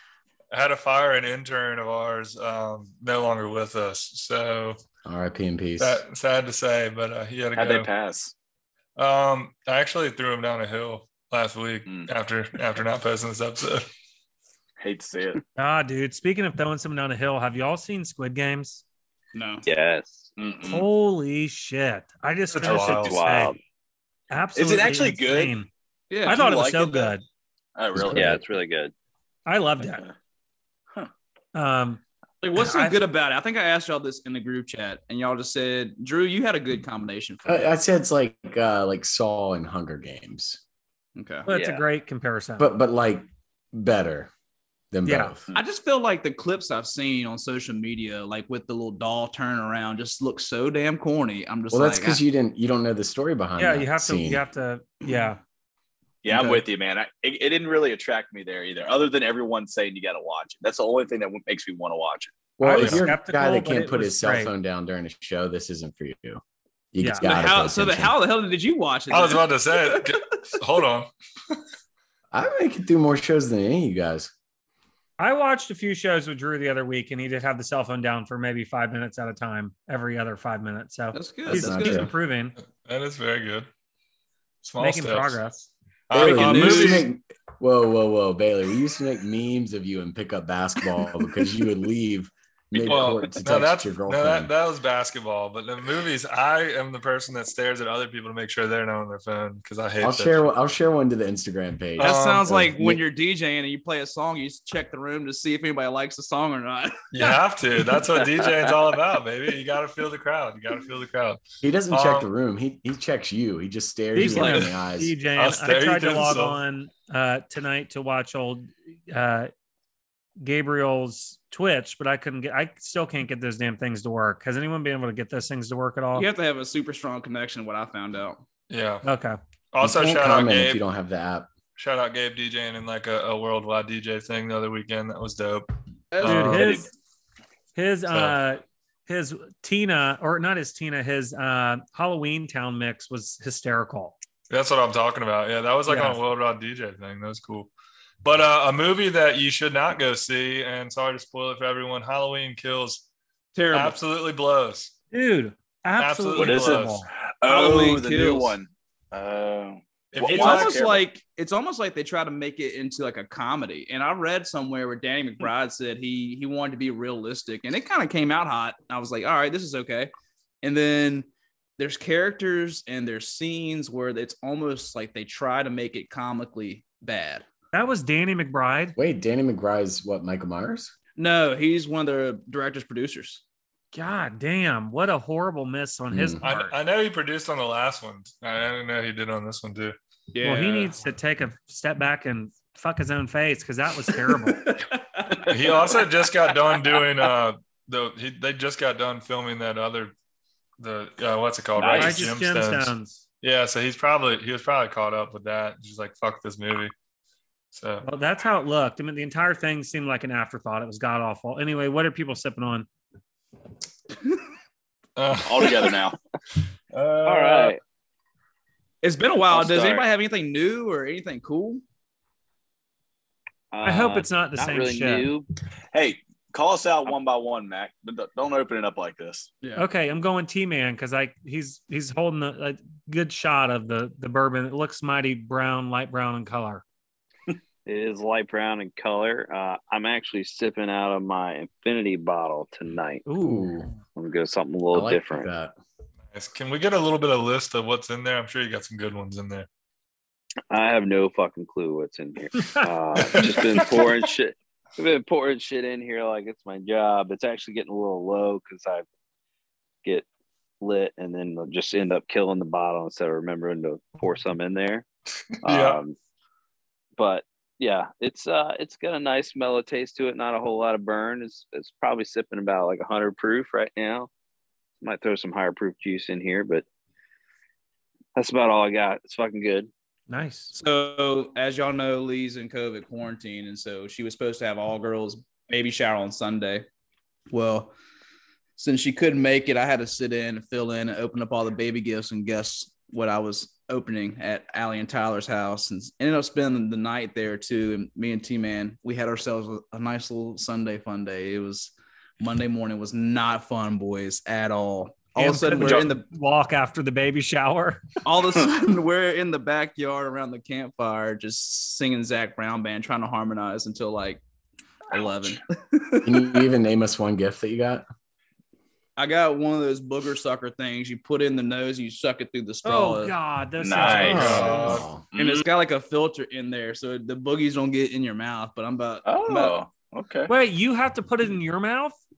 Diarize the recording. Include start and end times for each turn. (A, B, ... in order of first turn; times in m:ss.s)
0:00.5-0:04.8 A
0:05.0-0:06.0 B
0:05.8-0:07.9 A
0:07.5-0:08.3 C
0:09.0-0:13.9 A
0:14.8-0:15.4 C
0:15.6-0:18.8 D
0:19.3-0:19.6 E
0:19.6-0:20.3 F
0:20.4-0:20.8 C
0:20.6-0:23.5 D
0:22.5-0:23.2 A
0:22.6-0:23.6 F
0:24.3-0:25.7 D
0:24.5-0:25.5 C
0:26.1-0:26.5 E
0:26.2-0:27.1 C
0:26.2-0:27.2 D
0:27.8-0:28.4 C
0:27.9-0:28.4 B
0:28.1-0:28.9 F
0:29.4-0:30.0 D
0:29.8-0:30.1 C
0:31.5-0:32.0 D
0:32.4-0:37.7 E
0:32.6-0:33.0 D
0:37.4-0:40.6 B
0:41.2-0:41.5 E
0:41.5-0:42.7 D
0:41.5-0:41.8 F
0:42.6-0:44.3 B
0:44.9-0:45.5 B
0:45.0-0:45.3 D
0:45.5-0:52.2 E
0:51.7-0:54.4 B
0:53.6-0:55.4 D
0:56.2-1:02.4 C
1:02.6-1:06.4 B
1:02.6-1:04.5 D
1:02.7-1:03.1 A
1:06.9-1:08.2 B
1:07.0-1:07.3 D
1:07.2-1:10.5 E
1:09.1-1:11.6 A
1:12.3-1:14.3 B
1:15.2-1:22.5 D
1:21.1-1:22.1 E
1:21.5-1:22.1 B
1:22.7-1:23.7 A
1:24.6-1:25.4 A
1:24.8-1:25.7 D
1:26.1-1:27.1 A
1:26.1-1:34.5 B
1:26.1-1:27.1 E
1:32.7-1:33.4 C
1:32.8-1:40.5 A
1:40.0-1:43.0 B
1:42.0-1:42.5 A
1:42.0-1:47.4 E
1:47.1-1:52.3 A
1:51.6-1:55.2 B
1:54.1-1:59.5 D
1:54.2-1:54.5 E
1:55.3-1:56.6 A
2:00.4-2:06.3 D
2:06.1-2:08.4 E
2:08.7-2:09.0 A
2:09.0-2:09.4 D
2:09.7-2:10.8 A
2:09.8-2:11.5 B
2:11.8-2:16.7 A
2:16.1-2:16.8 E
2:16.2-2:16.8 D
2:16.5-2:16.8 C
2:17.7-2:24.2 D
2:18.1-2:18.4 A
2:24.5-2:27.7 A
2:25.9-2:26.2 D
2:28.2-2:33.0 A
2:33.5-2:34.0 E
2:33.7-2:34.9 A
2:35.1-2:37.1 D
2:36.0-2:37.0 A
2:36.4-2:41.0 C
2:37.4-2:38.6 E
2:40.1-2:40.8 A
2:40.2-2:57.4 E
2:57.7-2:59.0 D
2:59.0-3:00.9 B
3:01.2-3:03.4 E
3:03.9-3:06.7 D
3:06.1-3:06.4 B
3:06.4-3:10.0 A
3:10.3-3:10.9 E
3:10.4-3:14.7 D
3:14.6-3:15.4 E
3:15.3-3:15.9 C
3:15.5-3:20.1 A
3:20.8-3:26.9 A
3:21.7-3:22.3 C
3:21.9-3:23.2 D
3:27.7-3:28.0 A
3:28.0-3:32.9 D
3:35.2-3:36.0 A
3:35.4-3:36.2 C
3:36.9-3:37.8 A
3:37.2-3:37.8 F
3:39.0-3:41.8 E
3:39.5-3:40.0 F
3:43.7-3:45.5 F
3:43.8-3:45.2 D
3:45.9-3:49.5 C
3:49.8-3:56.8 D
3:57.8-4:03.2 F
4:03.2-4:03.7 D
4:03.4-4:03.9 B
4:04.2-4:05.5 F
4:04.9-4:05.7 B
4:06.3-4:09.7 A
4:10.7-4:19.0 F
4:13.2-4:14.2 A
4:20.8-4:25.0 F
4:25.6-4:26.0 A
4:25.6-4:26.1 F
4:27.2-4:34.3 F
4:35.0-4:36.8 F
4:38.4-4:39.9 F
4:40.3-4:40.7 D
4:40.7-4:46.8 E
4:47.5-4:47.9 E
4:48.8-5:06.2 E
5:05.4-5:08.0 D
5:05.8-5:06.1 C
5:08.2-5:14.4 E
5:15.1-5:16.6 E
5:15.1-5:15.6 C
5:16.2-5:18.0 B
5:19.2-5:23.4 E
5:22.8-5:25.0 D
5:23.8-5:24.7 C
5:24.0-5:25.1 A
5:24.1-5:25.3 B
5:25.3-5:25.7 C
5:25.4-5:29.8 E
5:29.2-5:30.5 C
5:30.5-5:32.2 D